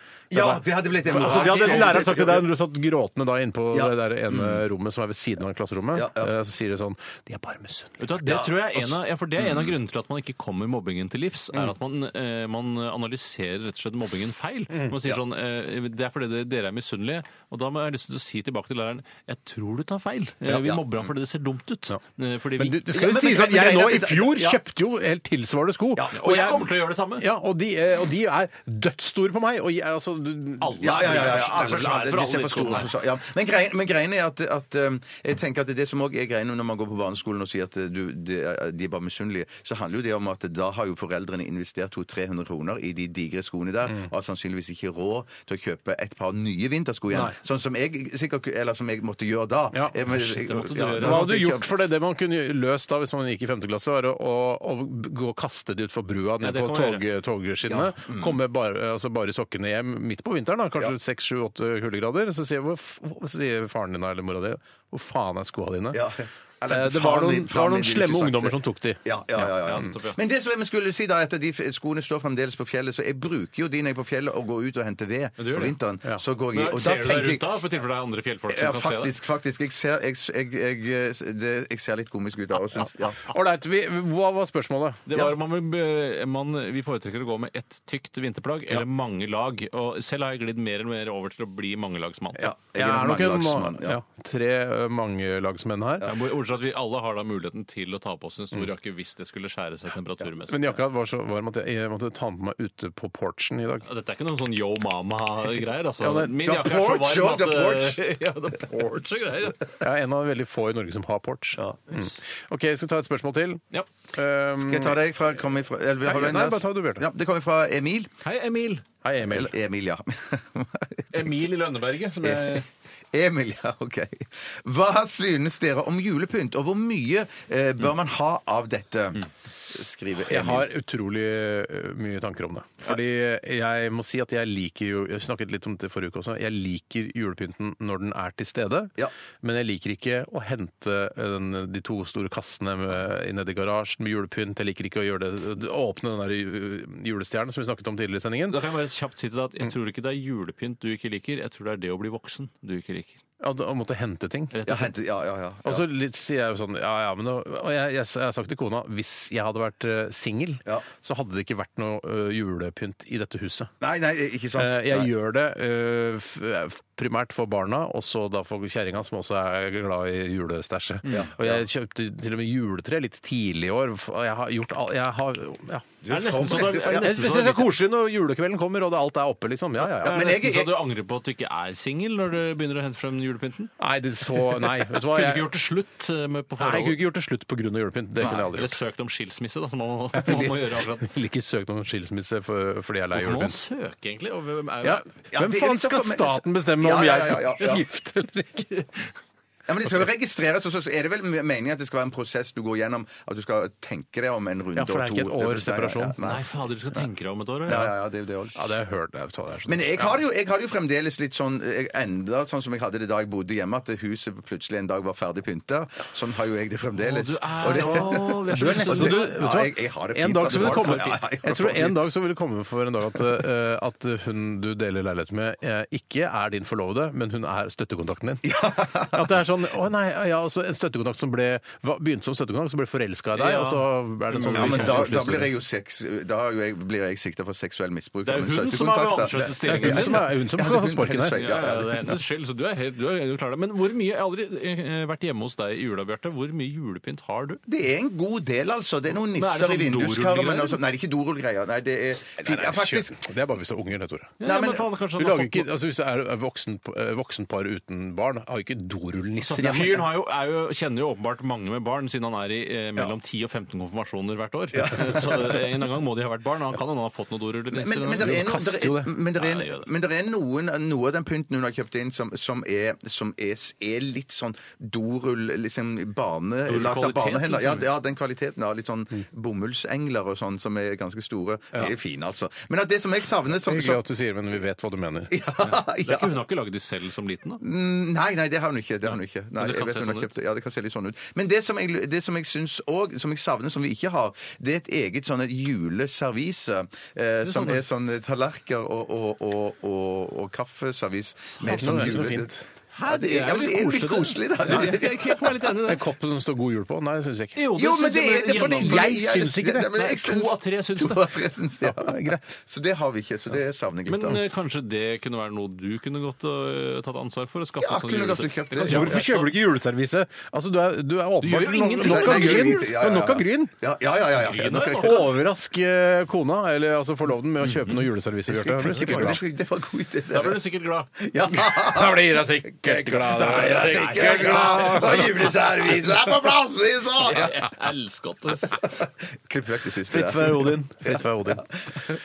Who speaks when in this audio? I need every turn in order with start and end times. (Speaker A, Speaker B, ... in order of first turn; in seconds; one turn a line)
Speaker A: 0.3-2.5
Speaker B: 0.3-8.2
Speaker C: 1.1-1.9
Speaker A: 3.7-4.6
Speaker A: 5.9-6.3
Speaker C: 8.0-22.8
Speaker A: 8.2-9.7
Speaker A: 20.5-20.9
Speaker B: 22.6-31.9
Speaker A: 22.9-24.6
Speaker A: 26.0-26.5
Speaker C: 26.1-27.3
Speaker C: 30.6-32.9
Speaker A: 30.8-51.7
Speaker C: 50.1-51.5
Speaker B: 51.0-66.1
Speaker C: 56.4-57.0
Speaker A: 57.7-58.4
Speaker A: 65.9-77.5
Speaker B: 66.7-69.8
Speaker C: 69.4-70.2
Speaker C: 75.4-75.8
Speaker C: 76.5-79.1
Speaker A: 78.5-83.2
Speaker B: 83.2-85.1
Speaker C: 85.1-92.5
Speaker A: 92.4-94.0
Speaker B: 92.8-96.1
Speaker C: 96.0-100.7
Speaker B: 100.5-103.9
Speaker C: 103.9-109.7
Speaker B: 106.0-106.4
Speaker A: 106.4-108.0
Speaker B: 109.8-113.6
Speaker B: 114.1-115.0
Speaker A: 114.6-118.1
Speaker B: 116.0-117.1
Speaker C: 118.2-118.8
Speaker B: 119.0-119.5
Speaker A: 119.2-121.3
Speaker C: 121.1-122.7
Speaker A: 122.2-122.6
Speaker A: 123.1-130.7
Speaker B: 130.3-148.6
Speaker C: 148.5-153.2
Speaker B: 153.4-154.6
Speaker C: 154.5-154.9
Speaker A: 154.7-155.8
Speaker B: 155.7-163.7
Speaker A: 163.8-165.1
Speaker B: 164.6-180.2
Speaker A: 171.1-171.6
Speaker A: 176.0-177.5
Speaker C: 176.1-177.7
Speaker A: 180.0-180.9
Speaker C: 180.0-183.7
Speaker B: 183.8-185.5
Speaker C: 184.9-187.0
Speaker B: 186.6-188.8
Speaker A: 188.2-188.5
Speaker C: 188.5-191.1
Speaker B: 190.2-193.6
Speaker C: 193.1-195.0
Speaker B: 194.8-198.9
Speaker A: 195.3-197.8
Speaker A: 199.7-207.0
Speaker B: 204.8-206.2
Speaker C: 206.2-207.9
Speaker A: 207.7-208.6
Speaker B: 208.6-210.1
Speaker A: 209.7-222.0
Speaker C: 217.0-219.4
Speaker B: 217.6-235.5
Speaker C: 220.5-221.2
Speaker A: 228.4-229.4
Speaker C: 233.3-235.3
Speaker A: 234.4-242.2
Speaker C: 238.2-240.2
Speaker B: 239.7-241.4
Speaker C: 241.4-247.6
Speaker A: 247.7-253.2
Speaker C: 249.3-250.8
Speaker B: 252.4-254.4
Speaker C: 254.4-255.7
Speaker A: 254.4-254.9
Speaker B: 255.2-260.0
Speaker C: 259.4-268.5
Speaker A: 264.7-265.6
Speaker A: 267.7-284.0
Speaker B: 268.2-269.1
Speaker C: 269.4-269.9
Speaker C: 276.7-277.9
Speaker B: 283.5-285.4
Speaker A: 285.3-286.4
Speaker C: 285.6-287.6
Speaker A: 287.6-302.5
Speaker C: 289.1-290.3
Speaker C: 297.4-297.8
Speaker B: 301.6-302.6
Speaker C: 301.7-302.0
Speaker C: 302.9-306.0
Speaker A: 303.0-305.5
Speaker B: 305.8-307.6
Speaker C: 307.6-309.1
Speaker A: 307.7-314.4
Speaker B: 308.5-310.0
Speaker C: 309.9-311.3
Speaker B: 311.8-312.4
Speaker C: 314.1-319.5
Speaker A: 317.8-319.3
Speaker B: 318.8-323.7
Speaker C: 321.4-322.9
Speaker A: 322.0-325.3
Speaker C: 324.4-325.2
Speaker B: 325.0-329.4
Speaker C: 327.7-328.0
Speaker A: 328.5-337.7
Speaker C: 329.0-329.4
Speaker C: 330.3-331.1
Speaker B: 331.6-336.5
Speaker C: 333.2-335.5
Speaker C: 337.2-338.9
Speaker A: 338.7-342.1
Speaker B: 340.1-341.7